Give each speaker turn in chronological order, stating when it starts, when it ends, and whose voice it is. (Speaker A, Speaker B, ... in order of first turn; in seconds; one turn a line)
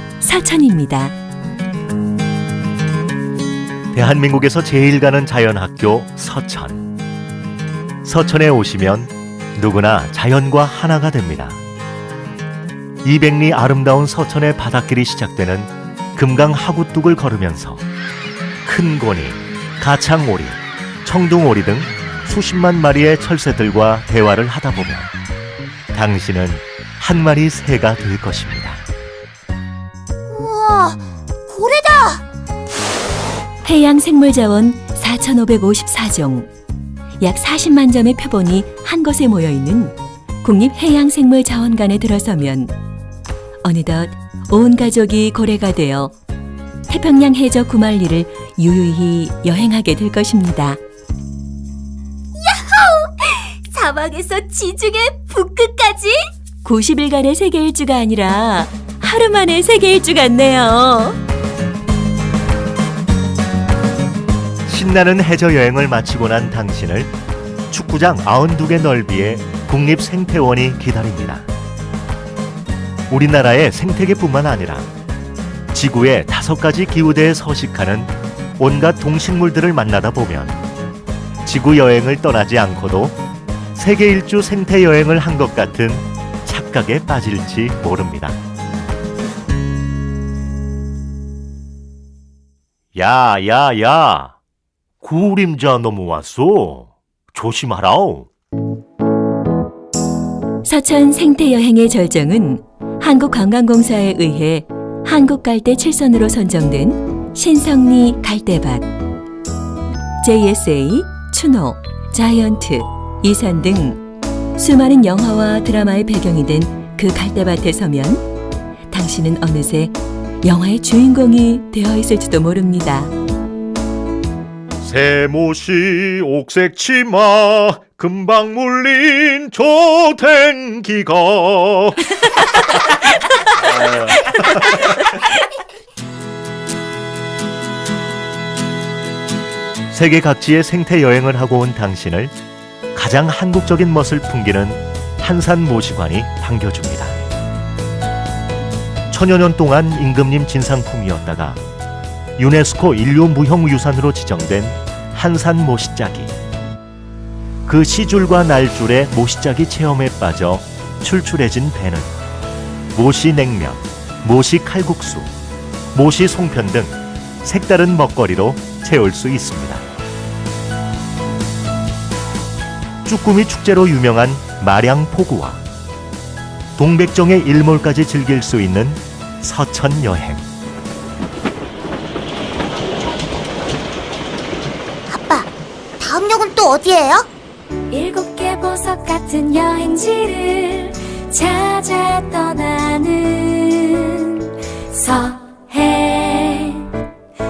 Speaker A: 0.2-1.1
Speaker B: 3.9-6.9
Speaker B: 8.0-11.6
Speaker B: 13.0-17.8
Speaker B: 18.6-25.1
Speaker B: 25.9-28.9
Speaker C: 30.3-32.2
Speaker A: 33.6-36.5
Speaker A: 37.2-42.7
Speaker A: 43.6-46.1
Speaker A: 46.9-50.8
Speaker A: 52.4-61.2
Speaker B: 64.7-67.1
Speaker B: 67.7-71.5
Speaker B: 73.1-74.9
Speaker B: 75.7-80.6
Speaker B: 81.4-83.2
Speaker B: 83.8-88.4
Speaker B: 92.9-94.3
Speaker B: 95.0-98.3
Speaker A: 100.6-108.9
Speaker A: 110.2-114.0
Speaker A: 114.5-118.2
Speaker A: 118.9-123.1
Speaker B: 124.8-132.1
Speaker B: 133.6-135.0
Speaker B: 139.9-142.3
Speaker B: 142.9-147.2
Speaker B: 149.1-151.6
Speaker B: 152.4-156.3
Speaker B: 157.7-162.1
Speaker B: 162.9-165.3
Speaker B: 165.9-169.8
Speaker B: 173.0-175.6
Speaker B: 176.8-180.5
Speaker C: 185.1-187.3
Speaker D: 187.9-197.0